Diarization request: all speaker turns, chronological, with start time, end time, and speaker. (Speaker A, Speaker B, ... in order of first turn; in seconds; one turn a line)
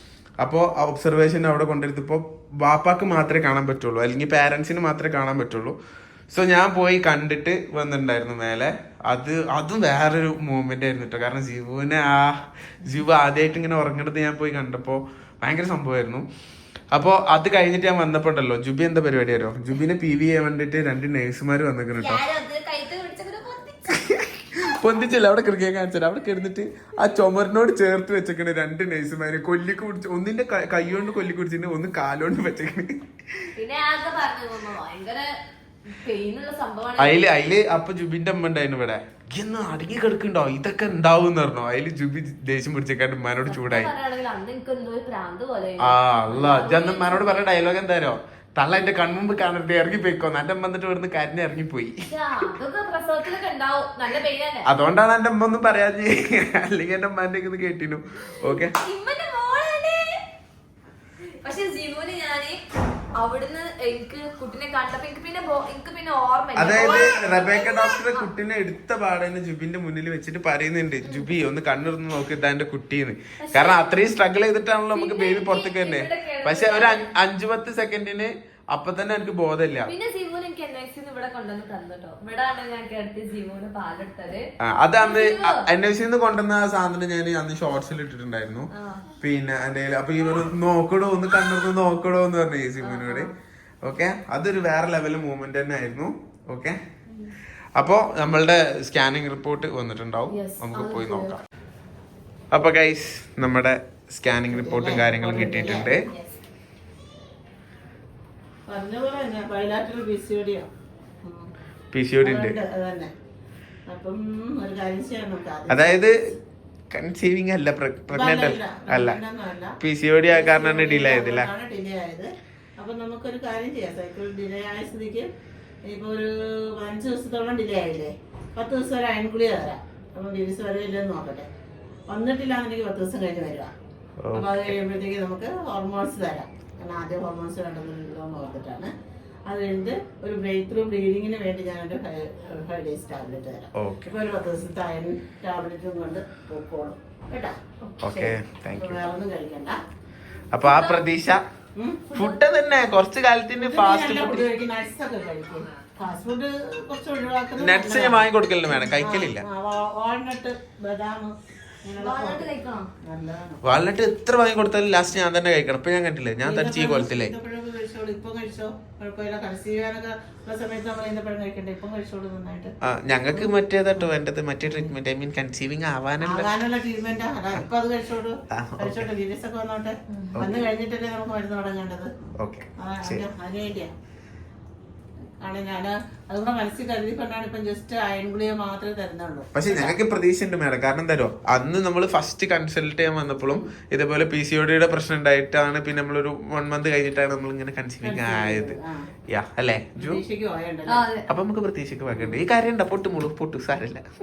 Speaker A: 0.4-5.8
Speaker A: 6.3-16.2
Speaker A: 16.9-22.2
Speaker B: 22.0-24.2
Speaker A: 23.9-33.5
Speaker B: 33.5-35.3
Speaker B: 35.9-37.2
Speaker A: 37.0-43.9
Speaker B: 43.5-47.4
Speaker A: 45.8-52.1
Speaker B: 52.0-54.7
Speaker A: 54.6-58.7
Speaker B: 58.3-60.2
Speaker B: 61.4-62.6
Speaker B: 63.2-68.3
Speaker A: 66.5-79.9
Speaker B: 71.0-71.3
Speaker B: 73.4-74.0
Speaker B: 74.9-77.0
Speaker B: 79.8-84.5
Speaker A: 84.6-88.7
Speaker B: 85.0-85.7
Speaker B: 88.7-89.1
Speaker A: 89.2-93.3
Speaker B: 92.8-93.3
Speaker A: 93.8-96.8
Speaker B: 97.1-97.3
Speaker A: 97.8-101.4
Speaker B: 100.3-101.4
Speaker A: 102.5-106.1
Speaker C: 104.5-106.1
Speaker B: 106.1-106.4
Speaker C: 108.7-110.7
Speaker C: 111.2-111.5
Speaker A: 111.9-112.5
Speaker C: 112.2-113.1
Speaker C: 113.9-116.1
Speaker A: 115.7-116.2
Speaker A: 116.9-119.2
Speaker C: 118.1-119.7
Speaker A: 119.8-121.5
Speaker C: 120.3-125.3
Speaker C: 125.9-131.5
Speaker C: 132.1-133.7
Speaker A: 134.2-134.7
Speaker C: 134.3-138.9
Speaker C: 139.5-149.8
Speaker A: 143.8-144.1
Speaker A: 148.0-149.0
Speaker A: 150.5-151.4
Speaker B: 150.6-151.0
Speaker C: 151.8-152.1
Speaker B: 152.1-152.4
Speaker A: 152.1-154.5
Speaker C: 153.5-158.3
Speaker A: 157.6-159.4
Speaker C: 159.0-161.3
Speaker C: 161.8-162.5
Speaker B: 162.0-162.9
Speaker C: 163.0-163.8
Speaker A: 163.6-167.3
Speaker C: 166.4-172.7
Speaker A: 172.8-176.5
Speaker C: 173.3-174.1
Speaker C: 174.7-174.9
Speaker C: 176.2-182.1
Speaker A: 178.5-179.1
Speaker A: 182.4-183.2
Speaker C: 182.8-183.9
Speaker C: 185.4-190.0
Speaker A: 189.5-198.8
Speaker C: 198.0-199.1
Speaker A: 199.3-200.2
Speaker C: 200.0-201.1
Speaker B: 200.9-201.3
Speaker A: 201.3-204.0